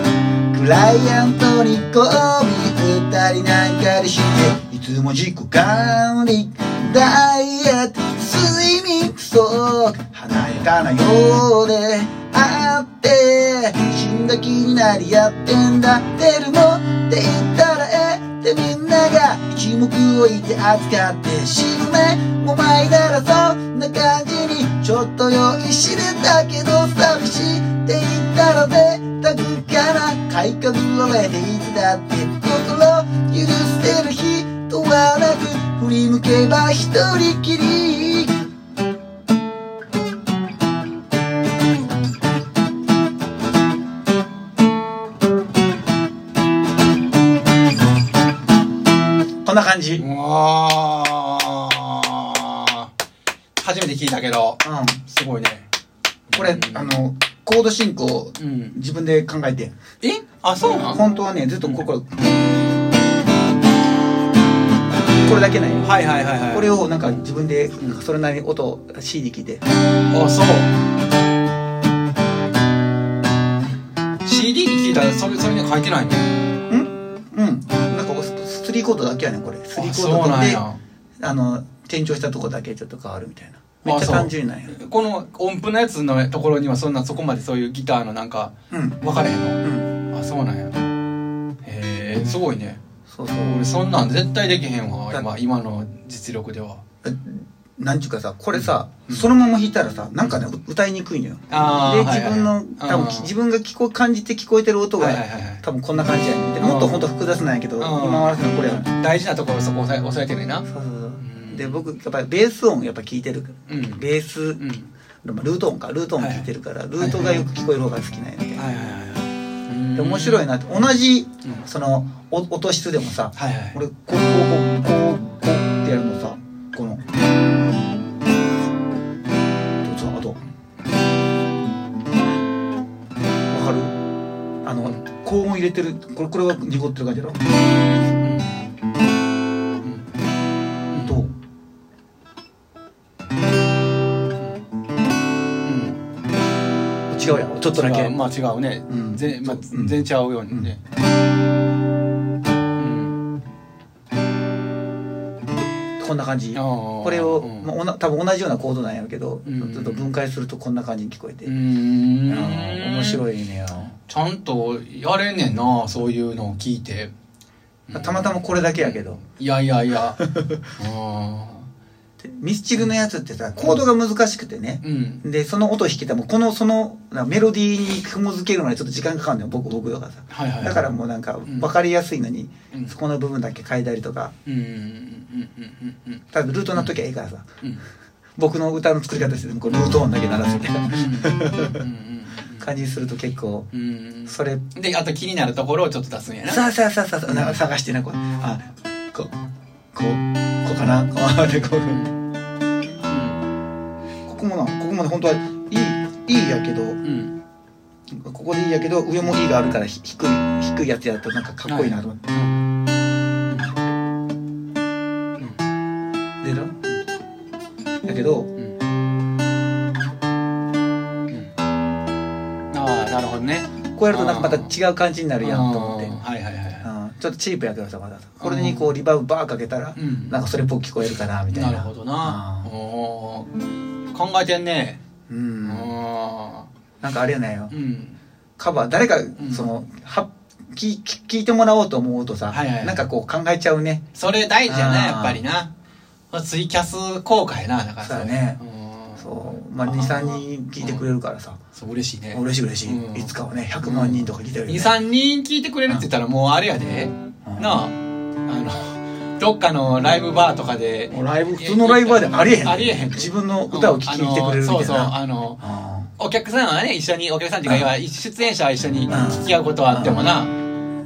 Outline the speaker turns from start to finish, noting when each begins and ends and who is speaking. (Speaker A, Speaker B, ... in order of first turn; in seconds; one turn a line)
Speaker A: 0.5-38.4
Speaker A: 49.4-50.0
Speaker B: 50.0-52.9
Speaker B: 53.6-55.7
Speaker A: 54.6-55.0
Speaker B: 56.3-57.0
Speaker A: 56.3-59.7
Speaker B: 58.4-58.8
Speaker B: 60.0-61.0
Speaker A: 60.9-62.1
Speaker A: 65.1-65.9
Speaker B: 65.8-67.2
Speaker A: 66.5-69.6
Speaker B: 70.1-70.7
Speaker B: 74.2-76.3
Speaker A: 76.7-80.6
Speaker B: 79.8-80.8
Speaker A: 81.2-84.7
Speaker B: 83.8-90.8
Speaker A: 88.7-89.0
Speaker A: 89.6-89.9
Speaker B: 91.6-92.8
Speaker A: 93.1-93.6
Speaker B: 93.4-96.8
Speaker A: 97.0-108.9
Speaker B: 98.5-99.3
Speaker B: 101.5-103.3
Speaker B: 105.0-105.6
Speaker B: 106.6-107.1
Speaker B: 107.8-111.8
Speaker A: 110.7-114.6
Speaker B: 113.7-114.0
Speaker B: 114.6-114.9
Speaker A: 115.2-118.7
Speaker B: 116.2-117.5
Speaker B: 118.6-120.5
Speaker A: 119.9-127.0
Speaker B: 123.4-123.8
Speaker A: 129.8-130.4
Speaker A: 133.5-133.9
Speaker A: 134.6-137.4
Speaker B: 138.2-138.7
Speaker B: 140.9-141.2
Speaker A: 141.0-141.3
Speaker B: 145.7-146.0
Speaker A: 147.1-148.2
Speaker B: 147.2-150.8
Speaker A: 148.9-150.7
Speaker B: 152.8-153.2
Speaker A: 156.0-161.5
Speaker B: 156.6-157.7
Speaker B: 159.4-160.1
Speaker B: 161.4-163.2
Speaker A: 162.3-163.9
Speaker B: 164.1-167.1
Speaker B: 167.9-170.2
Speaker A: 167.9-169.2
Speaker A: 170.2-170.6
Speaker B: 170.8-171.7
Speaker A: 172.2-184.3
Speaker B: 174.8-175.2
Speaker B: 180.3-180.8
Speaker B: 182.7-183.0
Speaker B: 184.4-187.0
Speaker A: 186.3-187.4
Speaker A: 188.4-191.8
Speaker B: 190.9-192.7
Speaker A: 192.6-193.7
Speaker B: 193.7-196.7
Speaker A: 194.3-194.6
Speaker A: 196.4-199.3
Speaker B: 197.3-197.6
Speaker A: 199.9-202.0
Speaker B: 201.9-202.2
Speaker B: 203.0-203.4
Speaker A: 204.3-207.0
Speaker B: 207.0-207.4
Speaker A: 208.1-212.2
Speaker B: 211.7-212.6
Speaker A: 216.4-216.7
Speaker A: 218.1-218.5
Speaker B: 222.7-224.7
Speaker A: 224.0-226.1
Speaker B: 225.4-226.9
Speaker A: 226.8-232.7
Speaker B: 228.4-228.9
Speaker B: 230.0-230.4
Speaker B: 231.5-233.5
Speaker B: 234.1-235.0
Speaker A: 235.3-235.9
Speaker B: 235.7-236.7
Speaker A: 237.0-237.7
Speaker B: 237.7-238.2
Speaker A: 238.6-244.0
Speaker B: 239.4-239.7
Speaker B: 242.5-243.1
Speaker B: 244.1-245.7
Speaker A: 244.7-245.4
Speaker B: 246.3-251.1
Speaker A: 248.0-248.6
Speaker A: 249.2-251.6
Speaker B: 251.8-257.9
Speaker A: 252.3-254.9
Speaker A: 257.5-257.8
Speaker B: 258.5-265.6
Speaker A: 261.1-266.1
Speaker B: 266.2-270.5
Speaker A: 269.0-270.4